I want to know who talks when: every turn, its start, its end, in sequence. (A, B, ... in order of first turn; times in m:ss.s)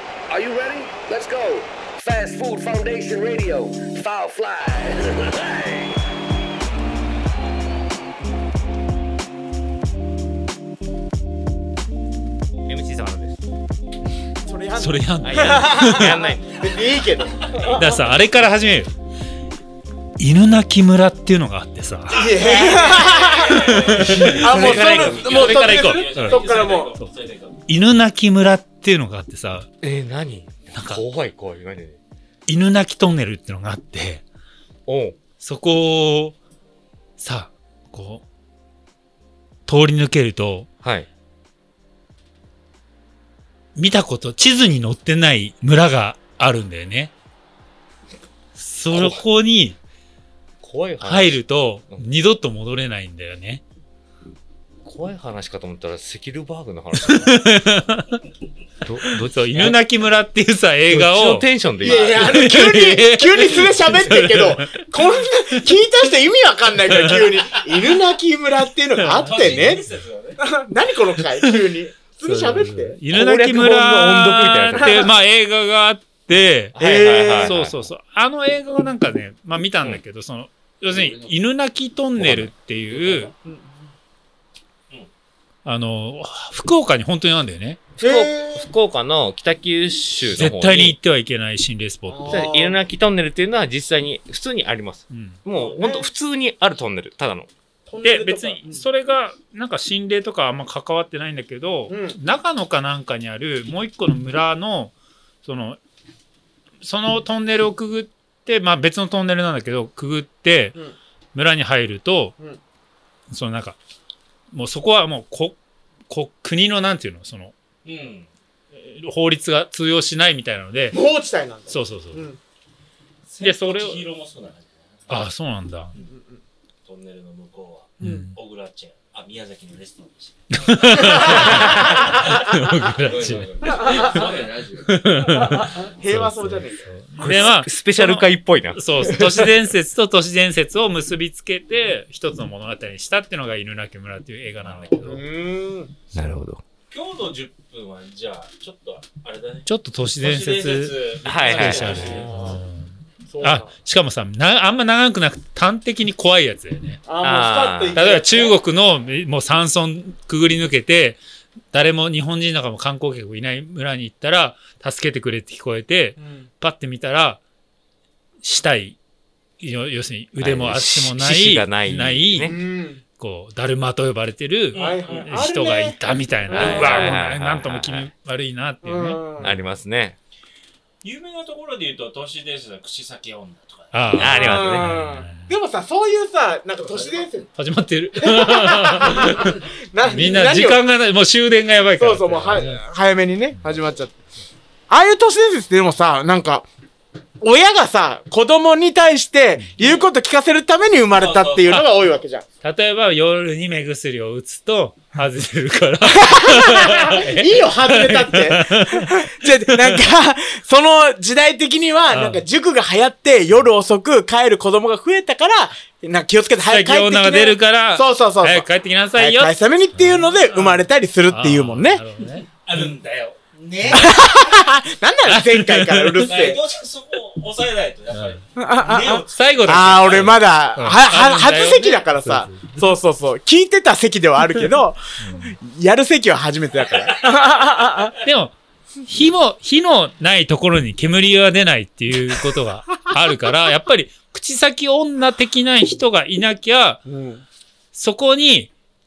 0:00.3-0:06.0 A
0:12.7-0:13.4 B
0:14.4-0:18.0 C
0:14.8-0:16.2 D
0:15.2-0:17.0 B
0:17.7-0:18.9 D
0:20.2-0:22.3 D
0:22.1-0:26.9 C
0:22.3-0:24.0 E
0:23.4-0:24.8 D
0:24.4-0:25.8 B
0:24.7-0:27.6 E
0:25.4-0:26.4 D
0:27.7-0:29.7 D
0:29.8-0:32.0 B
0:30.7-0:31.0 D
0:32.5-0:34.2 D
0:34.9-0:35.2 B
0:35.4-0:36.4 D
0:37.2-0:38.2 D
0:39.7-0:40.7 D
0:40.8-0:41.1 B
0:43.8-0:47.1 D
0:48.6-0:49.8 D
0:48.9-0:49.3 B
0:50.6-0:52.0 B
0:51.0-0:53.6 D
0:54.8-0:57.4 B
0:57.0-0:58.2 D
0:58.8-0:59.8 B
0:58.9-1:01.5 D
1:00.9-1:02.5 B
1:01.8-1:09.8 C
1:02.1-1:04.9 D
1:06.9-1:07.7 D
1:09.0-1:09.8 D
1:09.2-1:10.4 E
1:10.4-1:13.0 C
1:11.4-1:11.7 D
1:12.2-1:16.8 D
1:13.1-1:15.2 B
1:14.8-1:15.0 C
1:16.7-1:17.9 B
1:16.8-1:17.6 C
1:17.4-1:23.3 D
1:20.9-1:21.4 B
1:22.2-1:23.3 B
1:23.4-1:23.8 C
1:25.6-1:27.9 D
1:28.0-1:31.0 B
1:28.0-1:28.7 C
1:30.3-1:32.4 D
1:32.1-1:32.8 C
1:32.3-1:37.5 B
1:35.1-1:35.4 D
1:35.5-1:36.1 C
1:37.9-1:38.8 C
1:38.0-1:45.8 D
1:41.9-1:42.2 C
1:46.8-1:50.8 D
1:51.4-1:52.4 D
1:53.3-1:53.8 D
1:54.5-1:55.6 D
1:56.1-1:57.5 D
1:57.8-1:58.3 E
1:58.8-2:01.0 D
2:00.9-2:02.4 C
2:01.7-2:02.2 D
2:03.2-2:05.2 E
2:03.4-2:04.0 D
2:05.1-2:05.9 D
2:06.0-2:06.4 C
2:06.8-2:10.5 E
2:08.0-2:08.4 D
2:08.0-2:08.3 C
2:10.5-2:14.1 D
2:11.5-2:11.9 B
2:13.0-2:14.3 B
2:13.7-2:14.9 E
2:14.8-2:25.2 D
2:15.6-2:17.5 C
2:17.2-2:19.5 B
2:24.6-2:24.9 E
2:25.0-2:26.0 C
2:26.1-2:26.6 B
2:26.9-2:29.7 E
2:29.7-2:37.1 D
2:30.2-2:32.6 E
2:31.2-2:32.2 B
2:32.0-2:32.6 C
2:33.3-2:33.7 C
2:37.0-2:38.6 C
2:37.2-2:38.0 B
2:37.9-2:41.2 D
2:41.7-2:47.4 D
2:46.2-2:46.5 C
2:48.4-2:49.0 D
2:49.6-2:59.5 D
2:50.4-2:52.6 B
2:52.4-2:53.0 C
2:54.7-2:55.6 E
2:54.7-2:57.0 C
2:56.5-2:58.1 B
2:58.8-2:59.5 C
2:59.4-3:00.2 B
3:01.0-3:04.2 E
3:03.9-3:05.5 D
3:04.1-3:05.0 B
3:04.4-3:07.5 C
3:07.6-3:09.6 D
3:08.2-3:10.8 C
3:10.1-3:12.7 D
3:12.0-3:14.1 C
3:14.9-3:16.7 C
3:17.4-3:22.4 C
3:19.8-3:20.1 E
3:21.2-3:21.7 E
3:22.6-3:30.0 D
3:26.0-3:42.0 C
3:32.1-3:32.4 D
3:36.6-3:42.9 D
3:42.5-3:44.0 E
3:43.9-3:44.3 D
3:43.9-3:46.6 C
3:45.2-3:46.3 D
3:46.2-3:50.3 E
3:48.1-3:48.4 D
3:48.6-3:58.1 C
3:49.3-3:53.0 D
3:54.5-3:55.6 D
3:56.8-3:57.3 E
3:58.2-4:07.0 D
4:07.1-4:07.4 C
4:07.9-4:08.7 D